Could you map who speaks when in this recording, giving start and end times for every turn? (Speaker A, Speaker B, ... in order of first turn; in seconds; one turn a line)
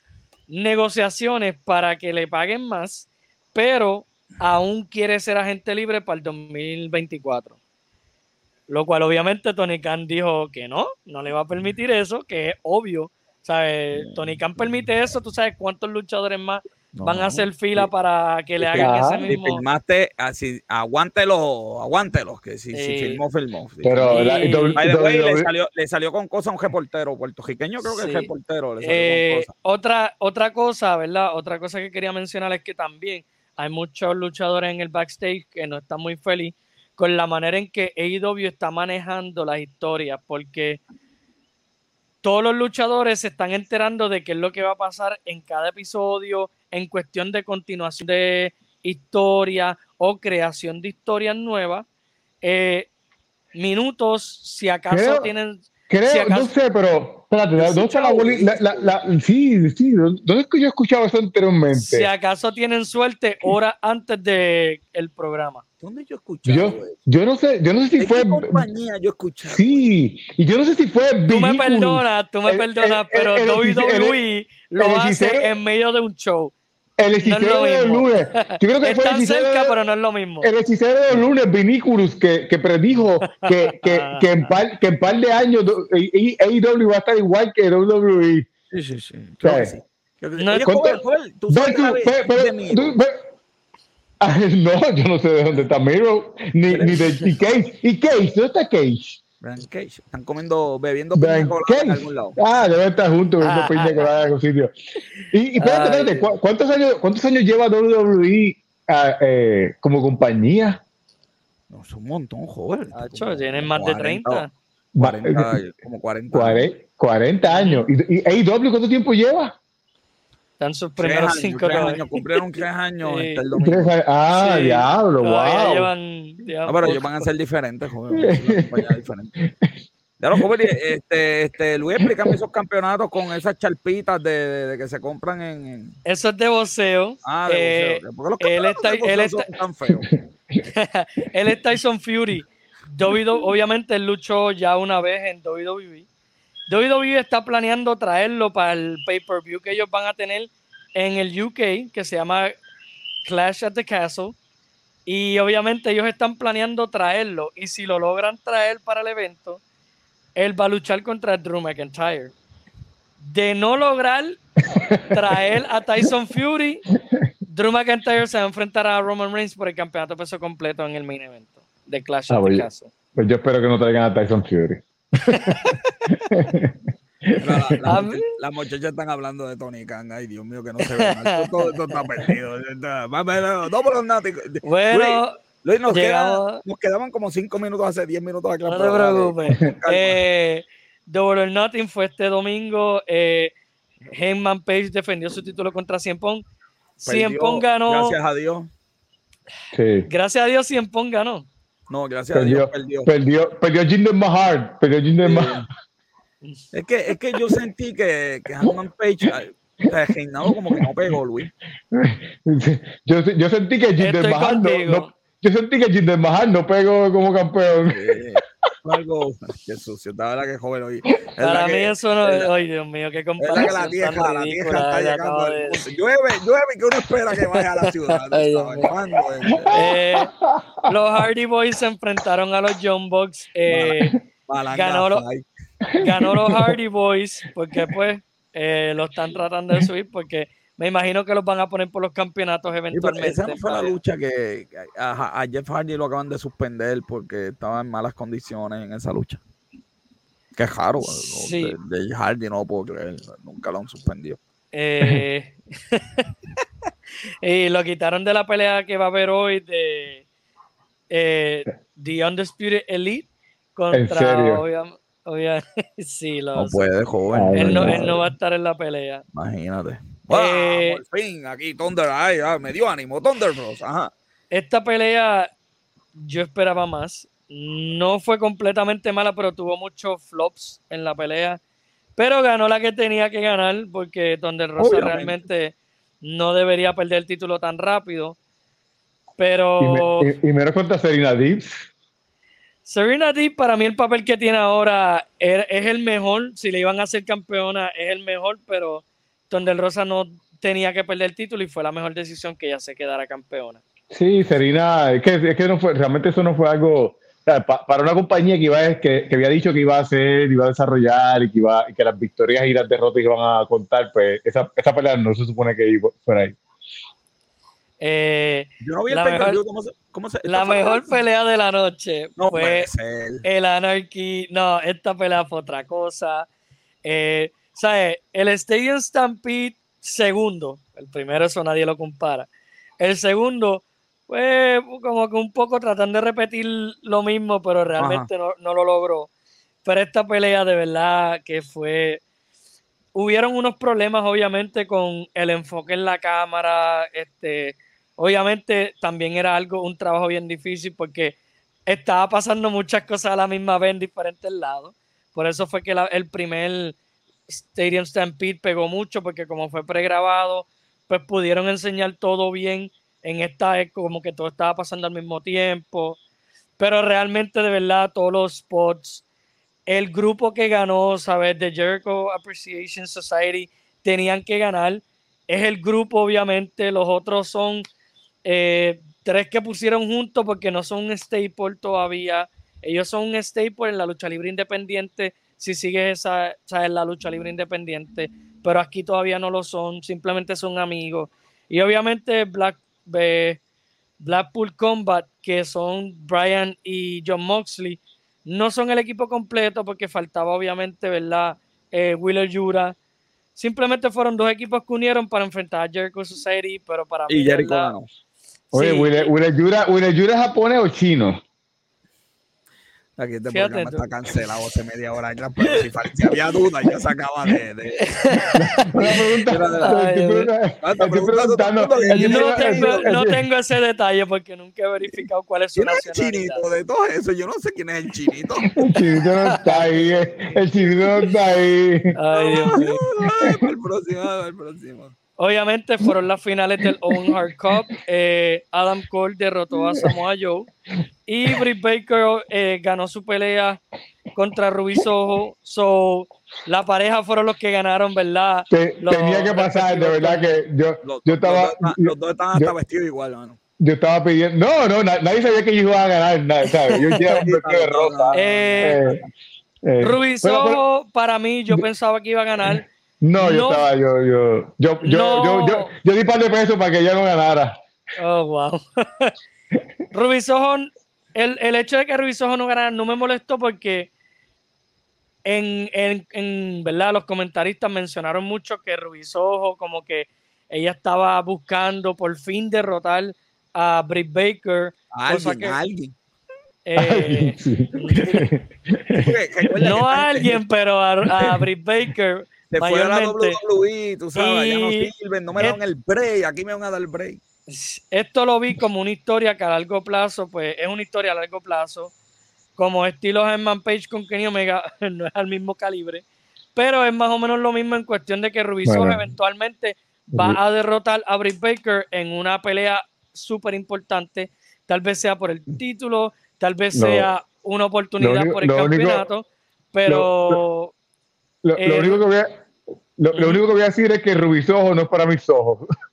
Speaker A: 0.5-7.5
Speaker A: 8.7-19.6
Speaker B: 16.9-17.9
Speaker B: 18.6-29.5
Speaker C: 18.8-19.2
Speaker A: 22.7-23.2
Speaker C: 23.8-25.5
Speaker A: 24.1-24.9
Speaker A: 27.8-28.3
Speaker A: 28.8-40.8
Speaker A: 42.2-51.9
Speaker A: 52.4-52.9
Speaker A: 53.5-56.5
Speaker C: 54.9-55.3
Speaker C: 55.9-62.1
Speaker B: 57.5-59.0
Speaker A: 61.7-65.6
Speaker B: 65.8-67.0
Speaker C: 66.5-68.6
Speaker B: 68.0-69.9
Speaker C: 69.5-74.2
Speaker A: 71.3-76.5
Speaker C: 74.8-75.5
Speaker C: 77.0-79.8
Speaker A: 77.2-80.5
Speaker C: 80.4-88.5
Speaker A: 83.3-84.5
Speaker B: 88.7-93.0
Speaker C: 89.4-89.7
Speaker A: 90.4-90.7
Speaker C: 90.6-91.0
Speaker C: 91.5-93.2
Speaker C: 94.2-99.2
Speaker B: 96.7-97.0
Speaker B: 99.4-102.4
Speaker C: 101.2-104.7
Speaker A: 103.4-104.1
Speaker C: 105.3-110.8
Speaker A: 105.6-106.2
Speaker B: 111.7-114.4
Speaker A: 112.9-114.5
Speaker C: 115.0-115.5
Speaker B: 115.0-116.7
Speaker C: 116.3-119.5
Speaker A: 117.5-117.8
Speaker A: 120.6-123.4
Speaker B: 121.0-123.9
Speaker C: 123.6-125.9
Speaker A: 124.3-127.2
Speaker B: 126.7-129.3
Speaker C: 128.1-128.9
Speaker C: 129.4-129.7
Speaker B: 130.2-135.9
Speaker C: 132.0-132.3
Speaker A: 136.0-139.5
Speaker B: 137.2-140.1
Speaker C: 139.9-140.6
Speaker A: 140.7-146.1
Speaker A: 146.7-152.6
Speaker A: 153.2-154.3
Speaker A: 155.1-159.6
Speaker A: 160.4-162.3
Speaker A: 163.2-166.9
Speaker C: 164.9-165.4
Speaker A: 167.5-172.9
Speaker C: 172.3-178.0
Speaker B: 177.4-190.2
Speaker A: 177.8-178.2
Speaker A: 180.8-182.3
Speaker A: 184.6-185.3
Speaker A: 185.9-186.6
Speaker A: 188.7-193.5
Speaker A: 194.1-196.4
Speaker A: 197.0-198.2
Speaker B: 197.1-198.7
Speaker C: 199.7-200.1
Speaker A: 200.1-201.5
Speaker B: 201.9-203.1
Speaker C: 202.3-205.6
Speaker B: 205.2-205.7
Speaker B: 206.7-211.5
Speaker C: 211.9-218.2
Speaker A: 214.0-215.1
Speaker B: 217.9-222.5
Speaker A: 221.4-225.8
Speaker B: 223.4-229.8
Speaker A: 228.1-228.9
Speaker C: 229.5-231.2
Speaker A: 229.7-230.3
Speaker A: 230.9-234.1
Speaker B: 233.7-233.9
Speaker B: 234.5-235.4
Speaker A: 234.7-235.2
Speaker C: 235.8-236.8
Speaker A: 236.0-243.9
Speaker B: 242.9-249.4
Speaker B: 250.6-254.4
Speaker A: 251.0-251.8
Speaker A: 254.7-256.3
Speaker A: 257.4-260.2
Speaker A: 261.1-266.8
Speaker C: 263.9-264.6
Speaker B: 266.5-268.2
Speaker C: 267.3-268.2
Speaker A: 267.6-269.2
Speaker B: 269.3-274.1
Speaker A: 270.3-271.0
Speaker A: 274.5-275.5
Speaker A: 276.1-281.6
Speaker A: 282.1-288.4
Speaker B: 284.8-285.4
Speaker A: 289.4-290.3
Speaker C: 289.8-291.9
Speaker A: 292.9-303.8
Speaker C: 304.1-316.6
Speaker A: 318.0-319.6
Speaker B: 318.8-321.2
Speaker A: 320.4-322.9
Speaker B: 322.4-323.4
Speaker A: 323.4-326.5
Speaker A: 327.0-332.5
Speaker A: 333.0-339.3
Speaker B: 338.0-338.3
Speaker A: 339.8-342.2
Speaker A: 343.1-351.3
Speaker A: 351.9-356.9
Speaker A: 357.5-366.2
Speaker A: 366.8-369.2
Speaker A: 369.9-377.9
Speaker A: 378.4-393.6
Speaker A: 394.2-402.9
Speaker A: 403.6-407.9
Speaker B: 407.3-408.1
Speaker A: 408.7-409.3
Speaker C: 408.7-411.4
Speaker B: 413.2-420.0
Speaker A: 413.5-414.1
Speaker A: 418.1-420.5
Speaker C: 418.6-423.4
Speaker B: 420.8-423.2
Speaker A: 422.0-426.7
Speaker B: 425.7-429.1
Speaker C: 428.7-432.1
Speaker A: 429.0-430.0
Speaker B: 429.6-431.0
Speaker A: 432.1-433.0
Speaker B: 432.3-435.1
Speaker A: 435.4-440.7
Speaker C: 437.0-437.7
Speaker C: 439.7-440.1
Speaker A: 441.3-443.8
Speaker A: 444.3-450.6
Speaker C: 448.7-452.7
Speaker B: 451.0-453.6
Speaker C: 453.8-459.2
Speaker A: 456.7-457.4
Speaker B: 457.3-459.3
Speaker A: 458.3-459.1
Speaker C: 459.8-460.8
Speaker A: 460.0-463.9
Speaker C: 462.6-467.8
Speaker A: 465.1-465.9
Speaker A: 468.2-469.3
Speaker A: 470.1-474.1
Speaker A: 475.5-485.8
Speaker B: 485.1-486.1
Speaker A: 486.9-488.4
Speaker C: 487.0-489.3
Speaker B: 489.1-490.6
Speaker A: 489.8-493.6
Speaker C: 491.2-491.6
Speaker B: 492.7-497.4
Speaker A: 494.4-495.8
Speaker A: 497.7-502.1
Speaker A: 502.8-506.2
Speaker A: 506.7-520.9
Speaker C: 508.8-509.3
Speaker C: 510.3-510.6
Speaker C: 516.9-517.3
Speaker C: 518.2-519.2
Speaker C: 520.1-520.6
Speaker C: 521.6-522.5
Speaker A: 521.8-522.2
Speaker C: 523.2-525.8
Speaker A: 523.3-523.6